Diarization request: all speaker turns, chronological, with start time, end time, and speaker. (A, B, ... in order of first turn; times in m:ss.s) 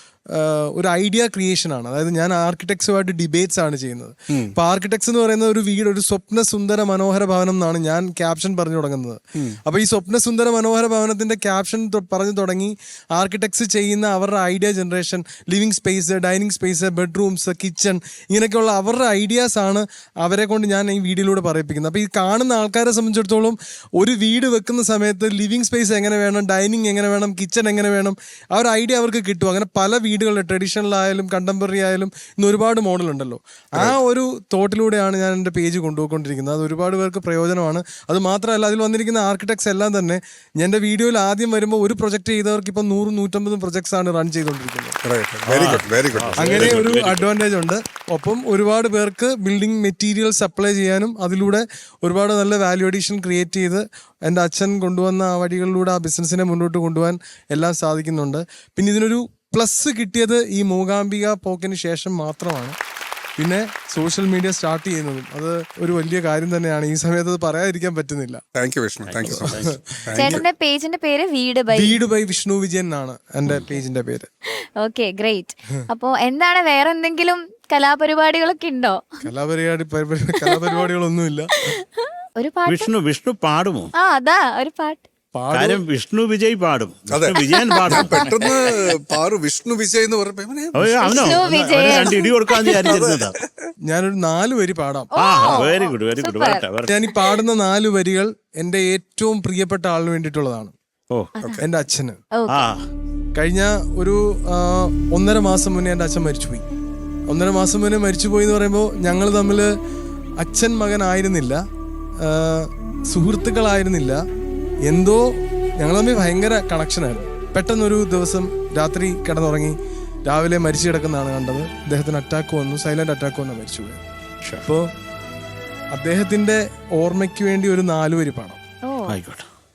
0:00.3-0:45.0 A
0:45.0-0:46.8 B
0:45.5-0:47.3 C
0:46.4-1:02.8 A
1:03.4-1:08.4 A
1:08.5-1:10.4 B
1:09.0-1:09.8 C
1:09.3-1:09.7 A
1:10.2-1:12.0 D
1:11.7-1:14.3 A
1:14.8-1:19.1 D
1:19.2-1:21.7 A
1:21.7-1:22.9 D
1:22.7-1:23.9 C
1:24.0-1:25.1 D
1:25.3-1:25.8 A
1:25.5-1:28.3 C
1:27.1-1:31.4 B
1:27.6-1:28.0 D
1:30.7-1:33.3 C
1:31.0-1:32.9 D
1:31.4-1:32.0 A
1:32.7-1:33.7 B
1:33.8-1:35.6 A
1:35.1-1:37.4 D
1:35.2-1:36.9 C
1:36.8-1:40.7 A
1:41.4-1:41.6 D
1:41.6-1:42.2 A
1:42.3-1:42.6 D
1:42.5-1:42.8 C
1:43.4-1:46.6 A
1:47.3-1:49.7 A
1:50.4-1:51.6 A
1:52.2-1:54.2 A
1:54.8-1:55.3 A
1:55.8-1:59.8 A
2:00.3-2:04.0 A
2:05.9-2:08.6 A
2:08.8-2:09.2 D
2:09.1-2:09.5 C